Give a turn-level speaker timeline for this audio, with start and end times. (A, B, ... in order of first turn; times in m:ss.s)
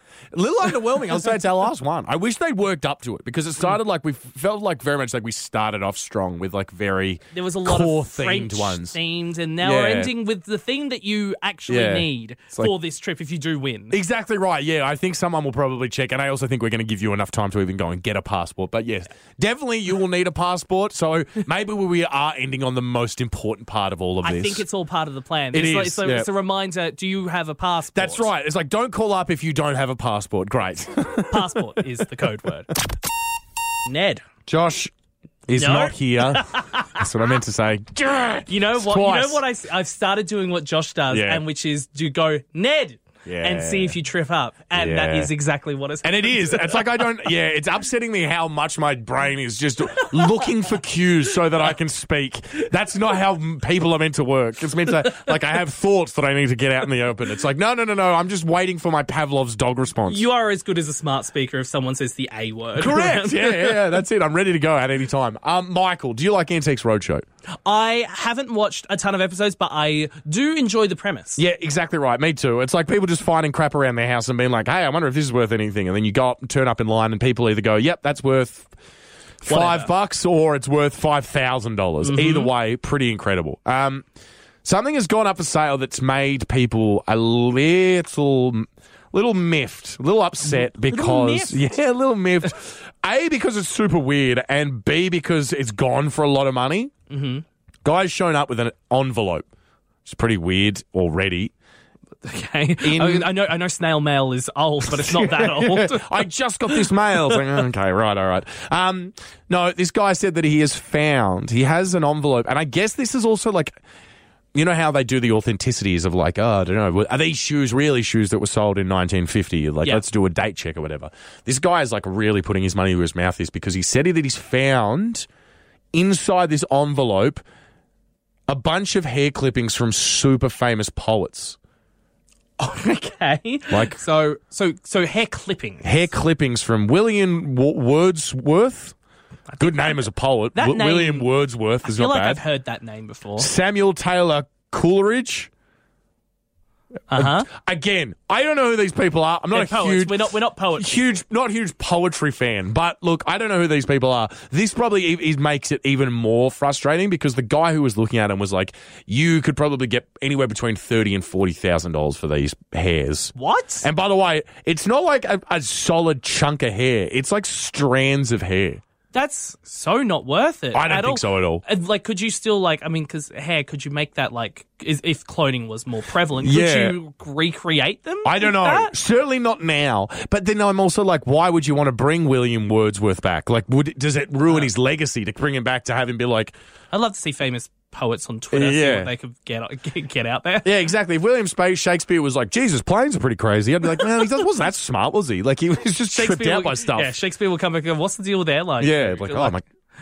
0:00.3-0:09.0 A
0:07.3-0:14.0 B
0:09.6-0:10.1 A
0:11.7-0:12.7 A
0:13.9-0:24.6 A
0:24.2-0:28.3 B
0:25.5-0:26.3 A
0:28.0-0:31.6 A
0:31.3-0:32.7 B
0:33.9-0:34.2 B
0:34.5-0:34.9 A
0:35.5-0:39.4 A
0:35.6-0:37.0 B
0:38.5-0:46.9 B
0:41.1-0:41.4 A
0:43.2-0:44.0 A
0:44.7-0:45.3 A
0:46.0-1:00.2 A
1:00.1-1:03.8 B
1:02.8-1:07.2 A
1:07.6-1:11.4 B
1:11.4-1:18.7 A
1:19.4-1:24.1 A
1:19.5-1:19.9 B
1:22.0-1:22.5 B
1:24.6-1:36.9 A
1:30.4-1:31.6 B
1:37.1-1:37.4 B
1:37.8-1:39.5 A
1:40.0-1:41.5 A
1:42.2-1:46.1 B
1:42.8-1:43.3 A
1:44.8-1:53.8 A
1:46.7-1:47.4 B
1:54.5-2:05.3 A
2:05.9-2:07.4 A
2:08.5-2:11.6 A
2:12.6-2:16.1 B
2:13.7-2:14.0 A
2:15.8-2:19.0 A
2:19.5-2:20.0 B
2:19.6-2:22.4 A
2:20.6-2:21.3 B
2:21.8-2:23.5 B
2:23.4-2:25.5 A
2:27.1-2:27.5 B
2:27.1-2:48.8 A
2:29.5-2:31.0 B
2:43.4-2:43.9 B
2:49.1-2:58.9 B
2:50.7-2:51.6 A
2:56.4-2:57.0 A
2:58.2-3:06.6 A
3:06.9-3:10.7 B
3:08.5-3:09.1 A
3:10.6-3:17.2 A
3:16.2-3:19.6 B
3:18.8-3:19.6 A